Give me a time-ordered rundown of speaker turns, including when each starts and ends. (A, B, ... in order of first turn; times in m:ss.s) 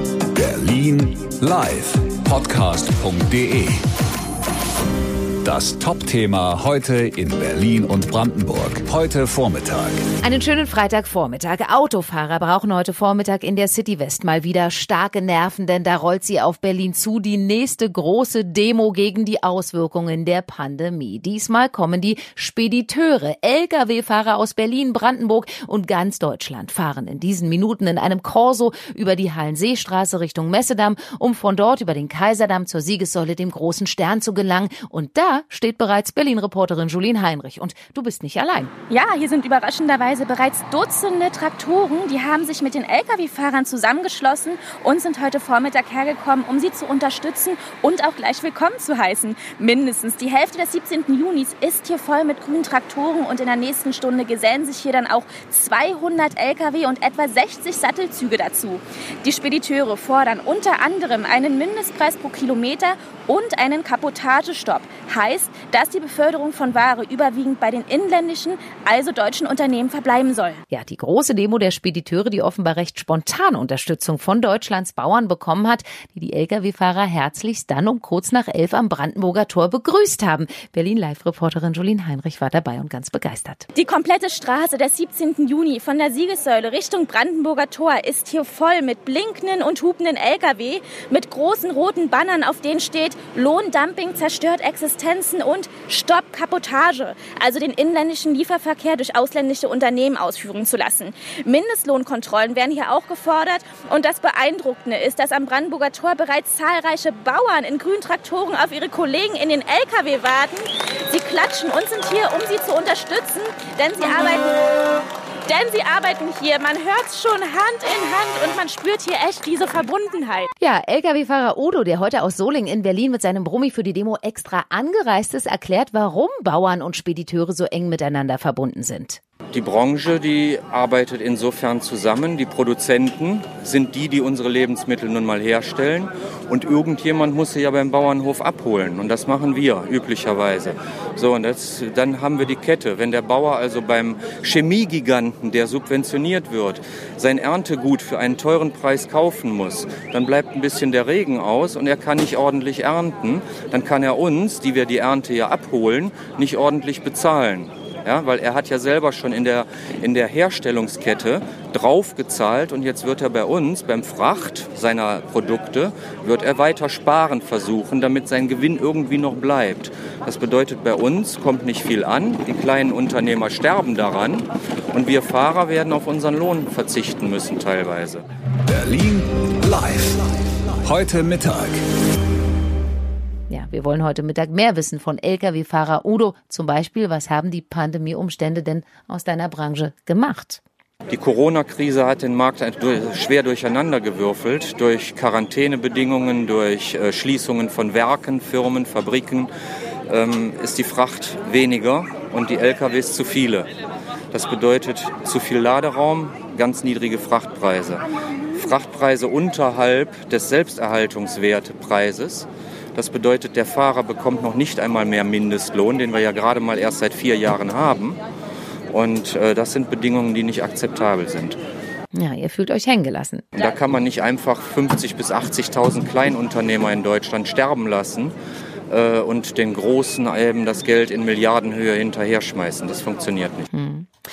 0:00.3-0:03.8 A
0:05.4-0:10.0 A
0:10.2-0:38.7 B
0:38.9-1:10.6 C
1:10.7-1:23.6 B
1:23.7-1:54.6 C
1:55.4-2:00.5 C
2:00.6-2:09.2 B
2:09.5-2:58.2 D
2:58.6-3:00.3 A
3:00.8-3:01.8 A
3:03.5-3:10.6 B
3:11.1-3:19.5 D
3:20.1-3:23.7 D
3:24.3-3:38.2 D
3:38.9-3:41.6 D
3:42.1-3:43.4 B
3:43.6-3:48.3 D
3:48.9-3:53.7 D
3:53.7-3:54.1 B